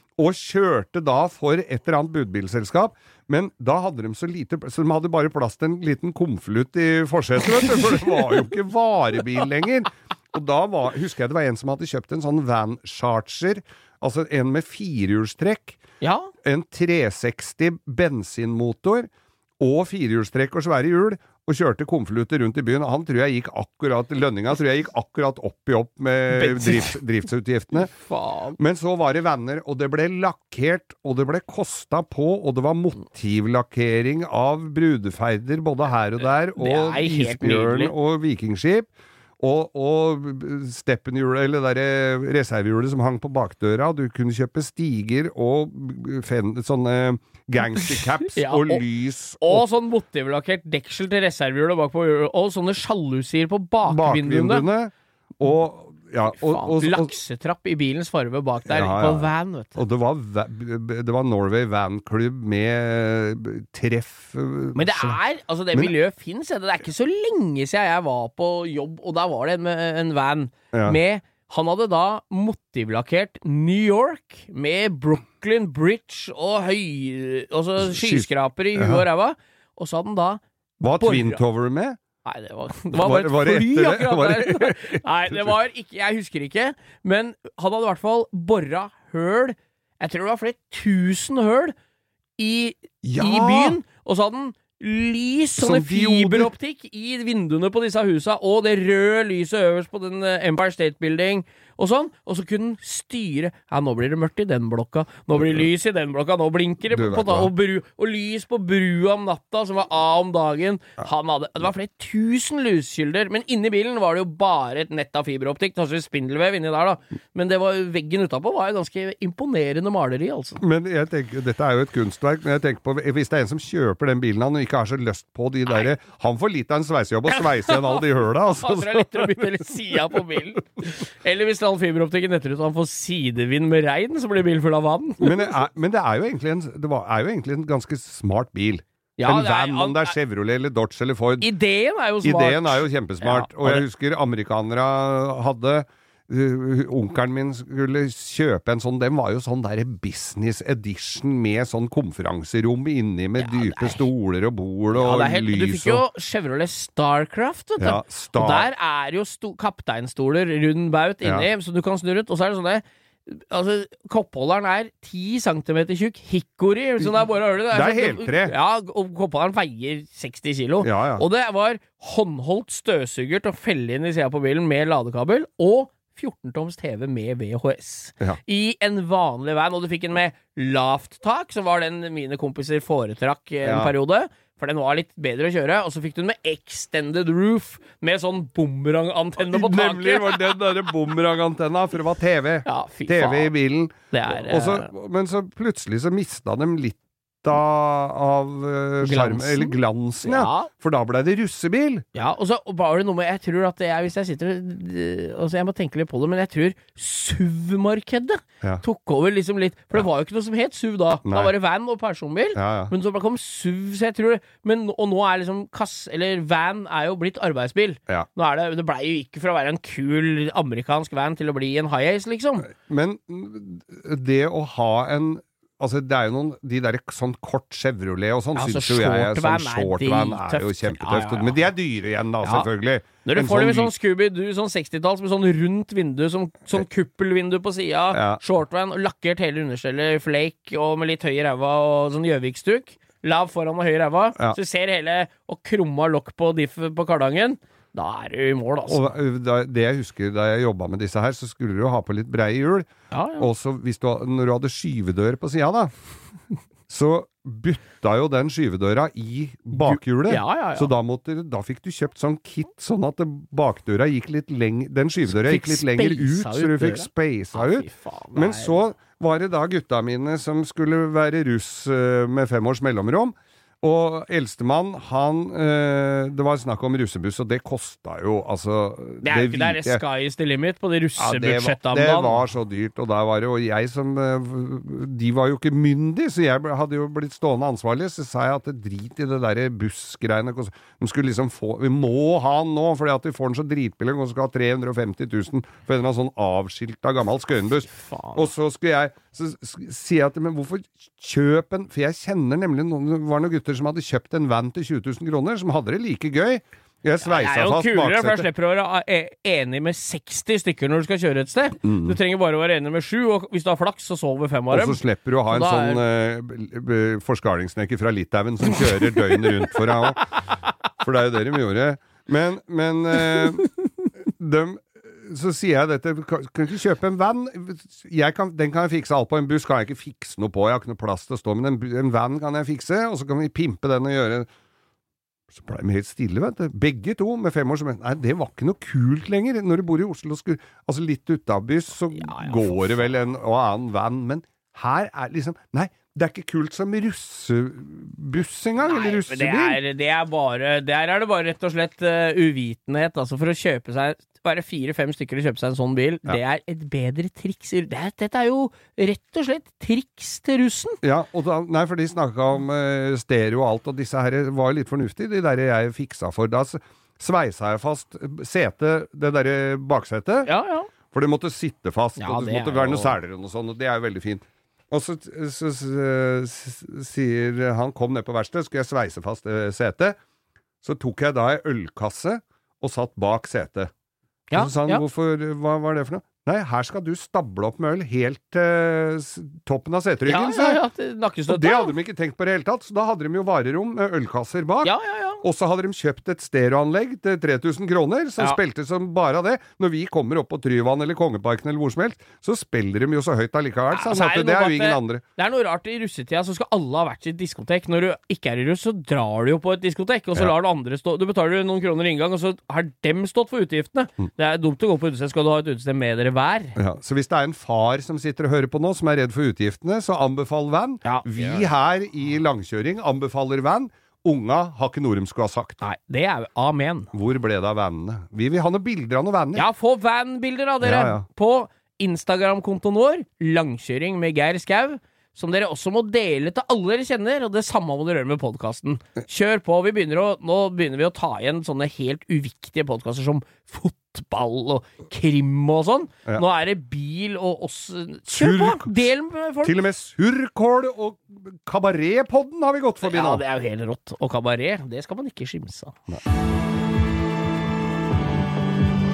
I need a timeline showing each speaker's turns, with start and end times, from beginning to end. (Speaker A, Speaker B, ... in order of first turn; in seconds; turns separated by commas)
Speaker A: 0.2-15.8, Speaker B: 16.0-16.3, Speaker A: 16.4-27.9, Speaker B: 26.3-27.0, Speaker B: 28.0-28.6, Speaker A: 28.6-49.6, Speaker B: 36.6-37.9, Speaker B: 47.8-48.8, Speaker B: 49.4-54.7, Speaker A: 53.9-57.1, Speaker B: 56.4-59.8, Speaker A: 58.7-65.2, Speaker B: 64.7-80.4, Speaker A: 70.7-71.0, Speaker A: 77.8-79.0, Speaker A: 80.8-82.0, Speaker B: 80.9-81.4, Speaker B: 82.2-91.7, Speaker A: 82.9-85.5, Speaker B: 92.4-120.6, Speaker A: 93.0-93.8, Speaker A: 95.6-96.5, Speaker A: 106.9-107.5, Speaker A: 120.6-130.2, Speaker B: 127.3-128.0, Speaker B: 128.6-135.5, Speaker A: 135.2-141.5, Speaker B: 139.2-140.2, Speaker B: 141.4-143.8, Speaker A: 142.2-156.0, Speaker B: 153.4-154.1, Speaker B: 154.9-190.6, Speaker A: 157.8-158.7, Speaker A: 167.7-168.5, Speaker A: 170.8-171.2, Speaker A: 183.6-183.9, Speaker A: 189.4-202.0, Speaker B: 192.6-193.5, Speaker B: 194.1-194.9, Speaker B: 199.0-200.7, Speaker B: 202.1-222.7, Speaker A: 211.2-211.5, Speaker A: 212.5-212.9, Speaker A: 222.6-233.9, Speaker B: 228.6-231.6, Speaker B: 232.4-232.7, Speaker B: 233.2-249.1, Speaker A: 238.1-238.4, Speaker A: 248.9-255.9, Speaker B: 253.1-253.5, Speaker A: 256.9-280.0, Speaker B: 259.7-260.9, Speaker B: 265.3-268.8, Speaker B: 279.2-282.4, Speaker A: 281.2-308.5, Speaker B: 297.9-298.5, Speaker B: 307.2-316.0, Speaker A: 311.8-312.2, Speaker A: 314.7-320.3, Speaker A: 321.0-323.7, Speaker A: 324.2-334.5, Speaker A: 335.5-349.8, Speaker B: 342.1-343.1, Speaker B: 348.8-361.0, Speaker A: 361.0-370.5, Speaker B: 370.4-370.9, Speaker A: 371.1-380.2, Speaker B: 372.2-373.1, Speaker A: 380.8-383.9, Speaker B: 384.5-385.0, Speaker A: 384.5-390.8, Speaker B: 390.2-391.9, Speaker A: 391.5-405.2, Speaker B: 394.8-395.4, Speaker B: 403.9-416.8, Speaker A: 416.8-425.8, Speaker B: 421.0-421.7, Speaker B: 425.8-427.1, Speaker A: 427.1-429.6, Speaker B: 429.5-449.8, Speaker A: 430.8-431.2, Speaker A: 448.3-449.0, Speaker A: 449.6-453.4, Speaker B: 453.0-456.0